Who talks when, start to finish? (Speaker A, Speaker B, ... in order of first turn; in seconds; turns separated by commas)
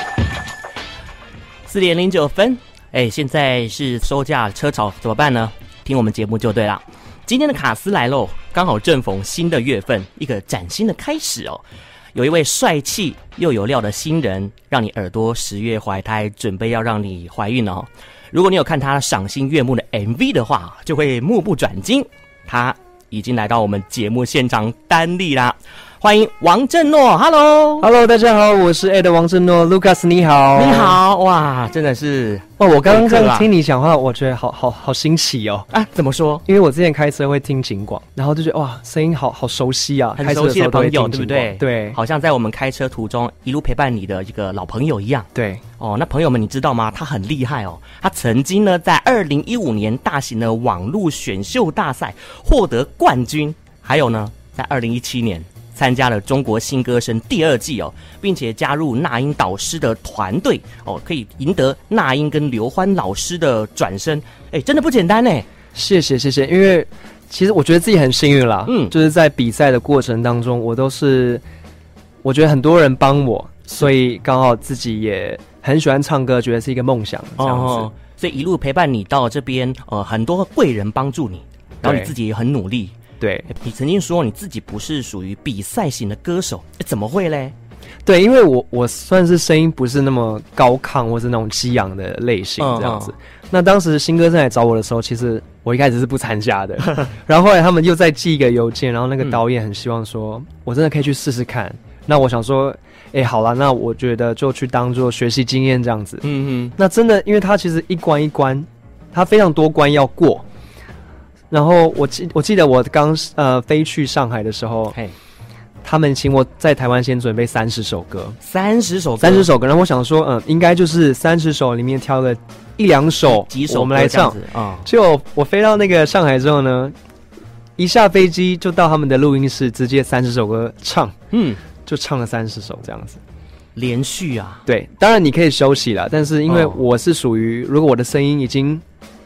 Speaker A: 1.7-11.6, Speaker A: 12.1-27.9, Speaker B: 27.8-31.0, Speaker A: 30.5-33.5, Speaker B: 32.6-35.7, Speaker A: 35.7-36.4, Speaker B: 36.5-42.0, Speaker A: 40.2-45.3, Speaker B: 45.3-45.6, Speaker A: 45.8-65.5, Speaker B: 65.7-71.4, Speaker A: 68.7-68.9, Speaker B: 72.2-77.9, Speaker A: 77.4-82.9, Speaker B: 81.8-82.1, Speaker B: 83.2-83.5, Speaker A: 83.5-87.5, Speaker B: 88.0-106.2, Speaker A: 92.6-93.1, Speaker A: 106.2-106.8, Speaker B: 106.8-110.4, Speaker B: 111.5-115.0, Speaker B: 115.8-118.4, Speaker A: 118.4-119.5, Speaker B: 119.2-126.9, Speaker A: 123.3-124.9, Speaker B: 127.8-131.2, Speaker A: 131.3-131.6, Speaker B: 131.8-133.2, Speaker A: 133.8-134.6, Speaker B: 134.7-138.8, Speaker A: 136.5-136.8